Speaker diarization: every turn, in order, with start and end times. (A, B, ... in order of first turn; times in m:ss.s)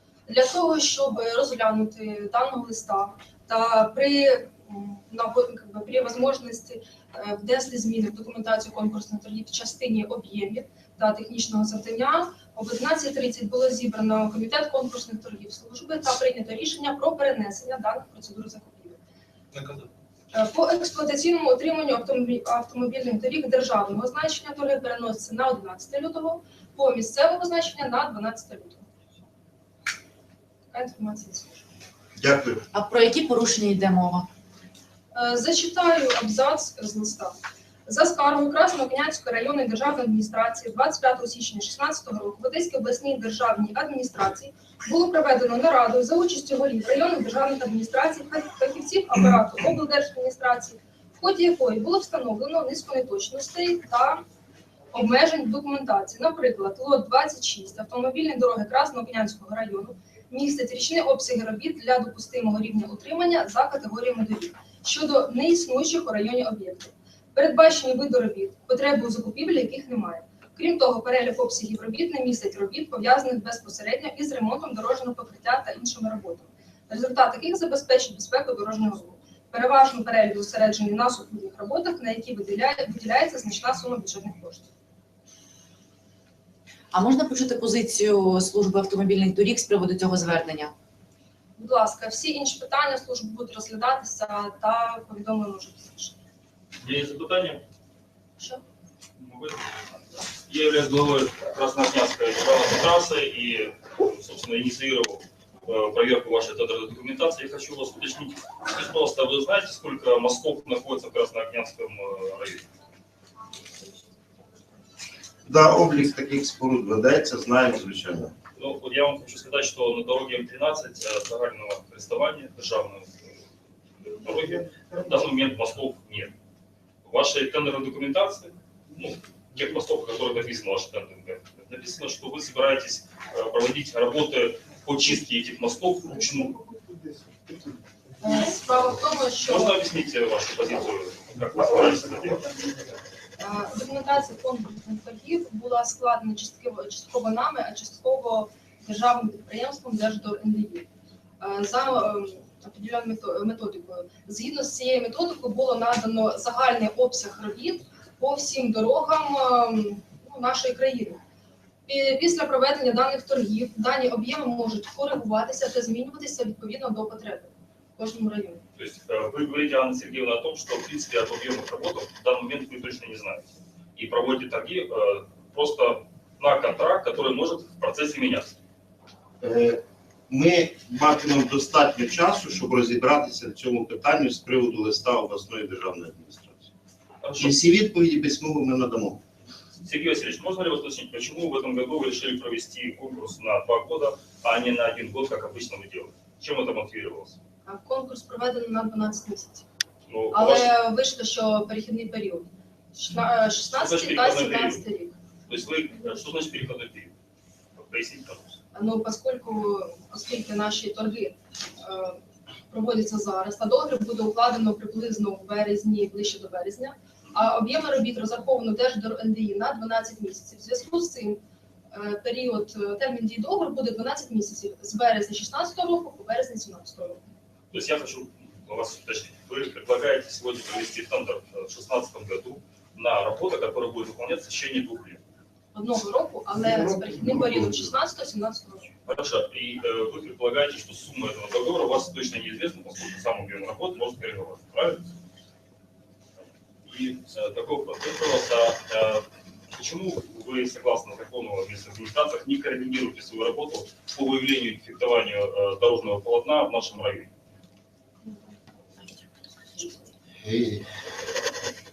0:00.3-0:19.0 A
0:19.5-0:19.9 B
0:20.3-0:28.8 A
0:30.7-0:31.6 A
0:32.2-0:32.6 C
0:32.7-0:34.3 D
0:35.1-0:54.2 A
0:54.9-1:24.7 A
1:26.9-1:30.7 D
1:31.6-1:36.2 A
1:36.8-1:37.6 B
1:39.2-1:52.6 B
1:55.5-1:58.3 C
1:58.6-2:03.1 B
2:04.0-2:06.3 B
2:07.0-2:16.6 B
2:18.2-2:19.8 A
2:19.4-2:22.5 B
2:23.4-2:30.9 A
2:31.4-2:41.2 A
2:41.9-2:48.6 A
2:48.8-2:58.6 B
2:59.4-3:06.7 C
3:07.2-3:07.6 B
3:07.4-3:09.2 C
3:09.8-3:17.4 B
3:17.6-3:19.7 A
3:20.1-3:20.7 B
3:20.3-3:25.1 A
3:23.7-3:24.8 B
3:25.5-3:27.1 B
3:27.8-3:28.5 B
3:28.7-3:32.2 A
3:32.7-3:41.4 A
3:41.9-3:47.2 A
3:47.7-3:55.2 B
3:55.7-3:58.9 A
3:56.7-3:57.8 C
3:59.1-4:05.0 B
4:06.8-4:17.3 B
4:20.4-4:20.9 C